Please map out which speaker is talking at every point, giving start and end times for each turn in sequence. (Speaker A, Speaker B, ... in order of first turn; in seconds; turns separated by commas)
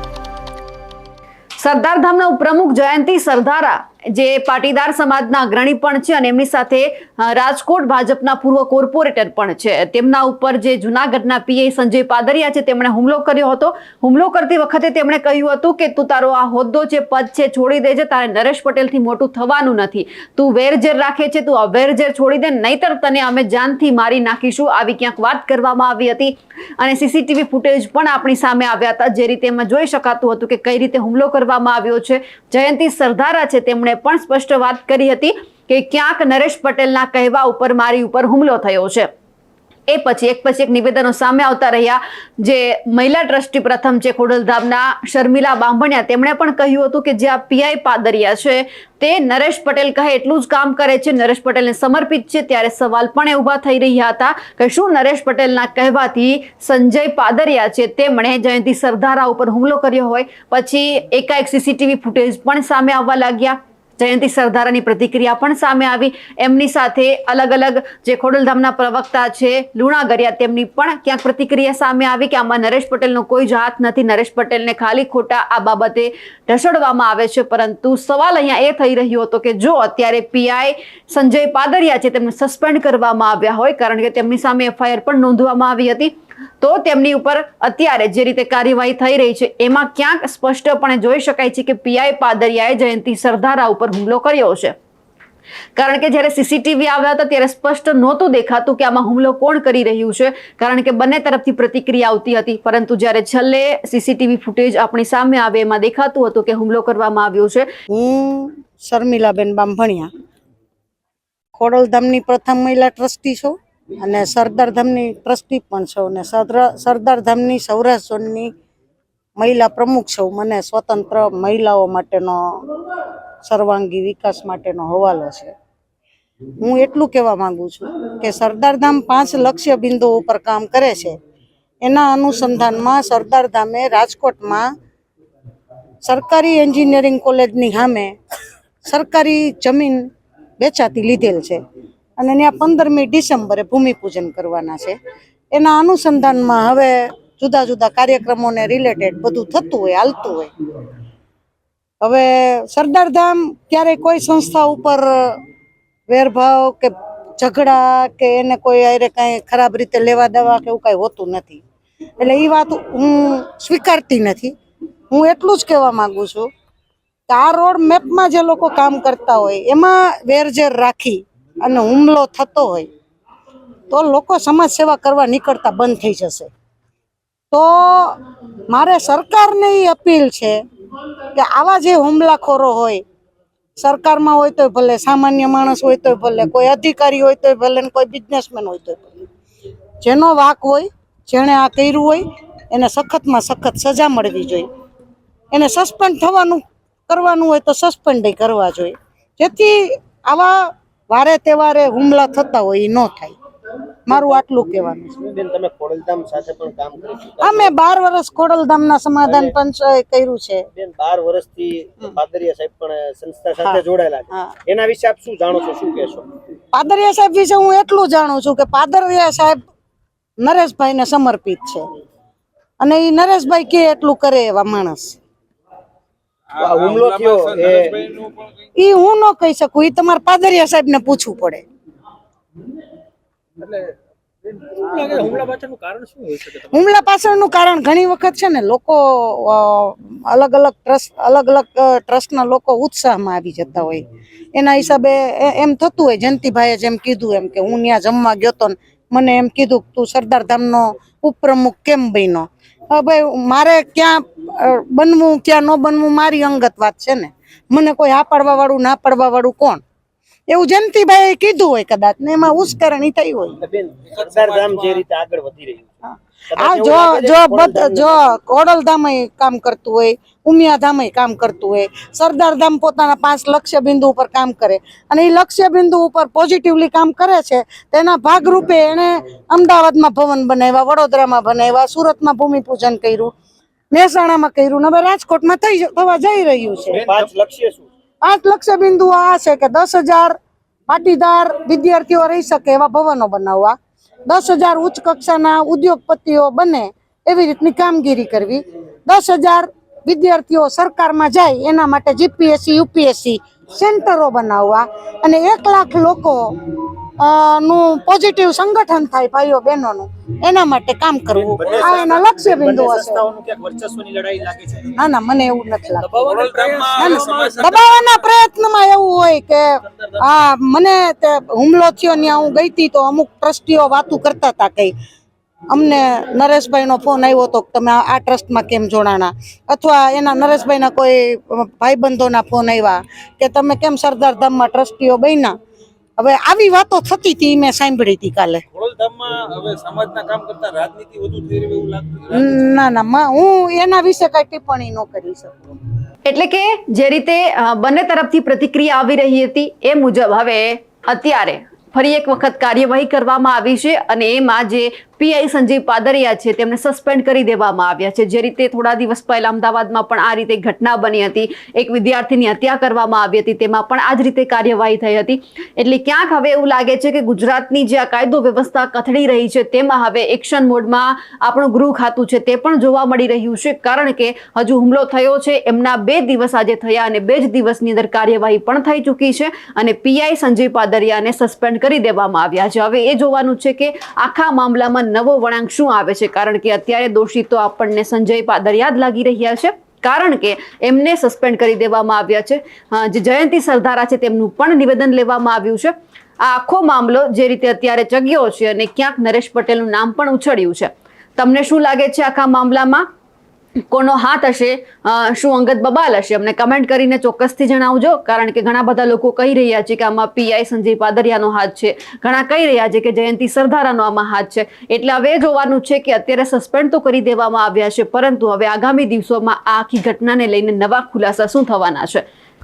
Speaker A: 1.6-39.1, Speaker A: 39.9-94.8, Speaker A: 95.8-107.7, Speaker B: 107.9-110.1, Speaker B: 111.5-118.5, Speaker B: 119.4-122.6, Speaker B: 123.4-125.5, Speaker B: 126.6-131.2, Speaker B: 131.8-134.7, Speaker B: 136.0-138.2, Speaker B: 138.8-140.1, Speaker B: 140.6-141.6, Speaker B: 142.2-145.0, Speaker B: 145.5-150.5, Speaker B: 152.0-155.4, Speaker B: 156.1-161.6, Speaker B: 162.2-164.5, Speaker B: 165.1-166.5, Speaker B: 167.3-172.9, Speaker B: 173.9-176.5, Speaker B: 177.5-178.2, Speaker B: 178.7-180.6, Speaker B: 181.3-183.0, Speaker B: 183.8-189.1, Speaker B: 190.0-194.7, Speaker B: 195.5-203.3, Speaker B: 204.1-205.2, Speaker C: 204.1-204.4, Speaker C: 205.2-207.7, Speaker B: 207.4-210.7, Speaker C: 209.2-209.5, Speaker C: 210.7-216.3, Speaker B: 216.7-219.6, Speaker B: 220.4-221.8, Speaker B: 222.8-225.2, Speaker D: 226.5-228.5, Speaker C: 226.6-227.9, Speaker B: 228.8-231.6, Speaker D: 233.6-233.9, Speaker D: 234.4-236.7, Speaker B: 236.7-244.0, Speaker B: 244.5-259.8, Speaker B: 260.5-263.6, Speaker C: 263.6-268.4, Speaker D: 264.1-265.0, Speaker B: 266.1-283.3, Speaker B: 283.9-287.1, Speaker C: 286.9-287.9, Speaker D: 287.0-287.3, Speaker B: 288.2-290.4, Speaker B: 290.9-293.7, Speaker B: 294.3-313.2, Speaker C: 311.3-314.9, Speaker D: 311.7-311.9, Speaker B: 314.9-316.1, Speaker D: 316.1-317.9, Speaker C: 316.2-317.6, Speaker B: 316.9-324.9, Speaker B: 325.7-335.5, Speaker B: 336.2-338.6, Speaker D: 338.7-342.6, Speaker B: 342.3-345.6, Speaker A: 346.2-403.1, Speaker A: 403.9-422.2